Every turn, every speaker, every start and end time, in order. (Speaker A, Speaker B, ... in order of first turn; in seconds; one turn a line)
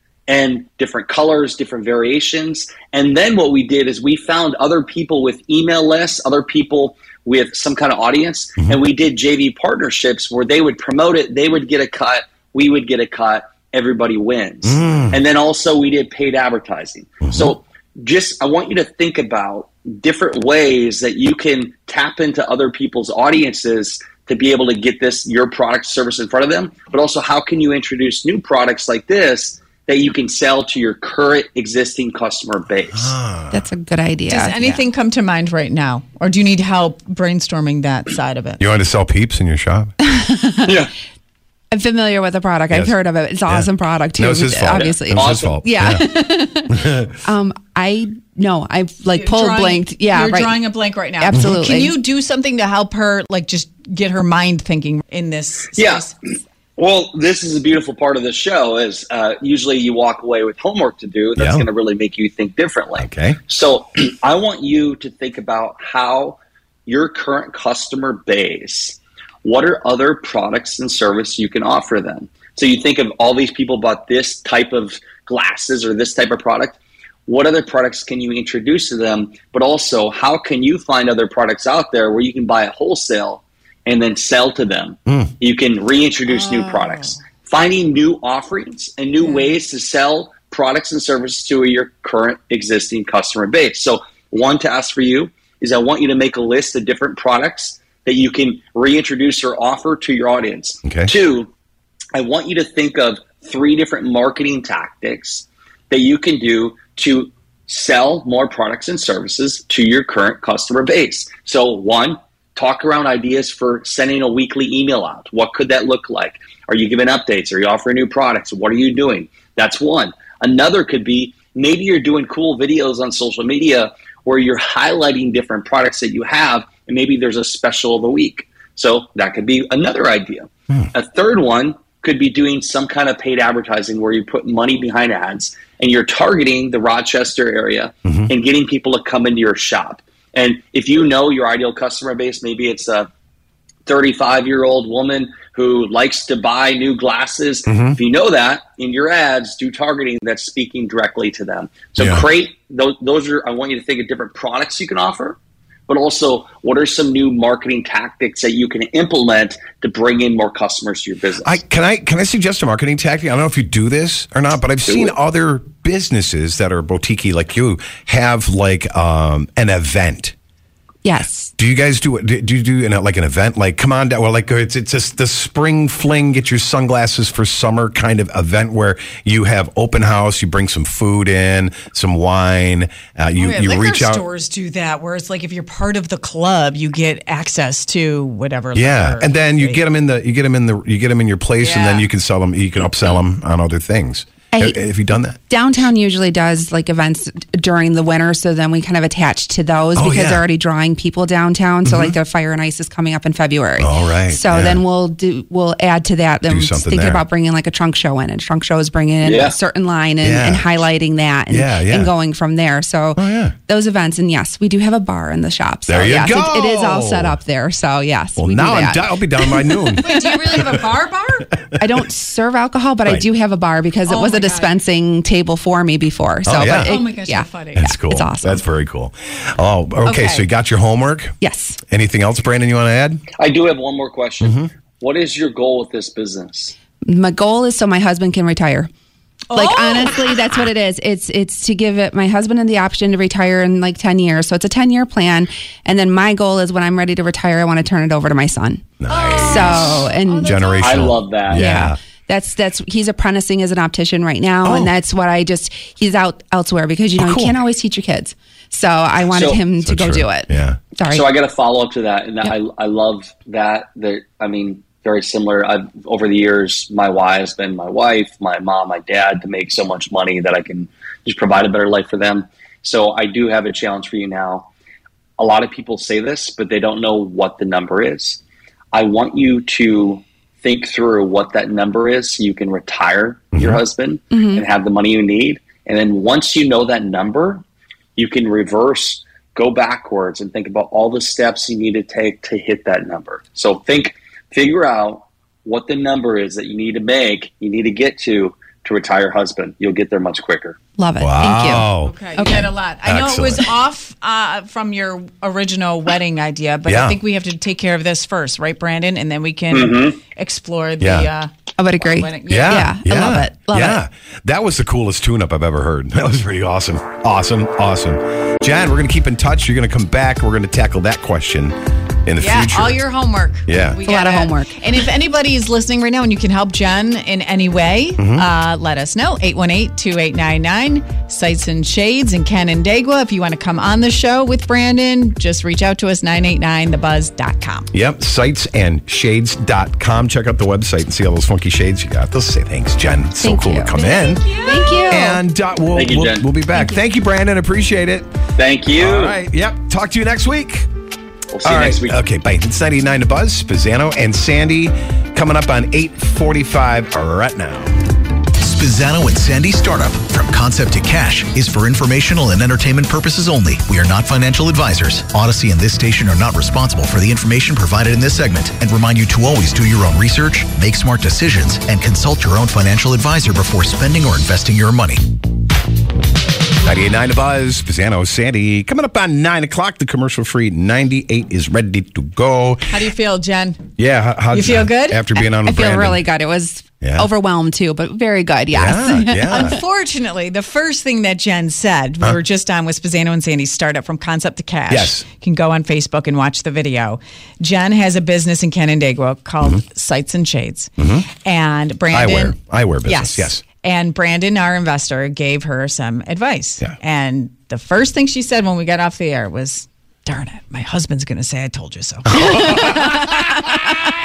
Speaker A: 0.3-33.1
Speaker B: 14.6-15.2
Speaker B: 17.2-17.5
Speaker B: 32.9-33.6
Speaker C: 33.5-34.8
Speaker D: 34.3-38.6
Speaker B: 38.6-39.9
Speaker C: 40.0-40.7
Speaker C: 41.7-46.7
Speaker B: 42.7-47.0
Speaker A: 44.7-45.6
Speaker C: 47.2-50.6
Speaker D: 49.1-56.1
Speaker C: 51.2-52.0
Speaker A: 55.8-56.1
Speaker A: 56.8-76.8
Speaker B: 61.4-61.6
Speaker B: 63.0-63.4
Speaker A: 77.3-101.5
Speaker D: 86.3-87.2
Speaker D: 89.2-89.5
Speaker B: 100.8-101.1
Speaker A: 102.1-143.1
Speaker A: 143.8-155.4
Speaker B: 147.7-148.0
Speaker B: 152.0-152.3
Speaker A: 155.9-161.6
Speaker B: 161.4-170.3
Speaker A: 164.8-165.2
Speaker C: 171.0-171.5
Speaker B: 171.6-184.2
Speaker D: 183.4-189.8
Speaker B: 188.7-195.4
Speaker D: 191.6-192.1
Speaker C: 194.5-194.8
Speaker C: 195.5-220.0
Speaker B: 199.9-200.4
Speaker B: 201.8-202.2
Speaker B: 203.8-204.8
Speaker B: 206.5-207.2
Speaker A: 209.2-209.6
Speaker B: 210.2-210.8
Speaker B: 211.5-212.1
Speaker B: 213.2-213.5
Speaker B: 215.9-217.4
Speaker B: 218.4-220.8
Speaker D: 220.0-221.5
Speaker C: 221.8-228.7
Speaker D: 224.1-224.8
Speaker B: 226.4-227.0
Speaker D: 226.7-227.9
Speaker B: 227.7-231.4
Speaker D: 230.0-230.5
Speaker C: 231.4-231.8
Speaker B: 231.9-233.2
Speaker A: 233.4-236.7
Speaker B: 234.4-234.7
Speaker C: 237.1-238.9
Speaker D: 239.5-240.3
Speaker C: 239.5-250.9
Speaker B: 249.0-252.0
Speaker D: 249.1-250.9
Speaker A: 250.8-251.7
Speaker C: 251.5-261.3
Speaker B: 254.6-254.9
Speaker B: 257.2-257.6
Speaker A: 259.3-259.6
Speaker B: 259.8-260.8
Speaker A: 261.1-274.7
Speaker A: 275.4-278.4
Speaker A: 278.9-287.6
Speaker B: 283.5-283.8
Speaker C: 284.3-284.6
Speaker A: 288.2-300.8
Speaker C: 301.0-302.7
Speaker B: 301.2-303.7
Speaker D: 302.0-312.9
Speaker B: 306.9-307.2
Speaker A: 309.7-310.2
Speaker B: 311.0-311.3
Speaker C: 311.8-314.0
Speaker B: 312.5-323.1
Speaker D: 322.4-337.9
Speaker B: 323.6-324.0
Speaker C: 324.1-324.7
Speaker B: 328.2-328.5
Speaker B: 337.9-344.5
Speaker C: 343.4-344.0
Speaker D: 343.9-345.2
Speaker C: 344.6-345.4
Speaker B: 345.1-348.3
Speaker A: 345.9-346.5
Speaker C: 346.7-347.0
Speaker A: 348.6-349.4
Speaker B: 348.9-350.9
Speaker A: 351.5-352.2
Speaker B: 351.6-357.9
Speaker E: 358.6-375.2
Speaker B: 376.8-382.9
Speaker D: 382.9-383.8
Speaker B: 384.0-386.2
Speaker D: 384.5-385.4
Speaker C: 385.6-389.7
Speaker B: 387.0-387.3
Speaker B: 388.7-389.8
Speaker D: 389.4-414.0
Speaker B: 394.9-395.2
Speaker B: 401.0-401.2
Speaker B: 402.1-403.6
Speaker B: 412.4-413.2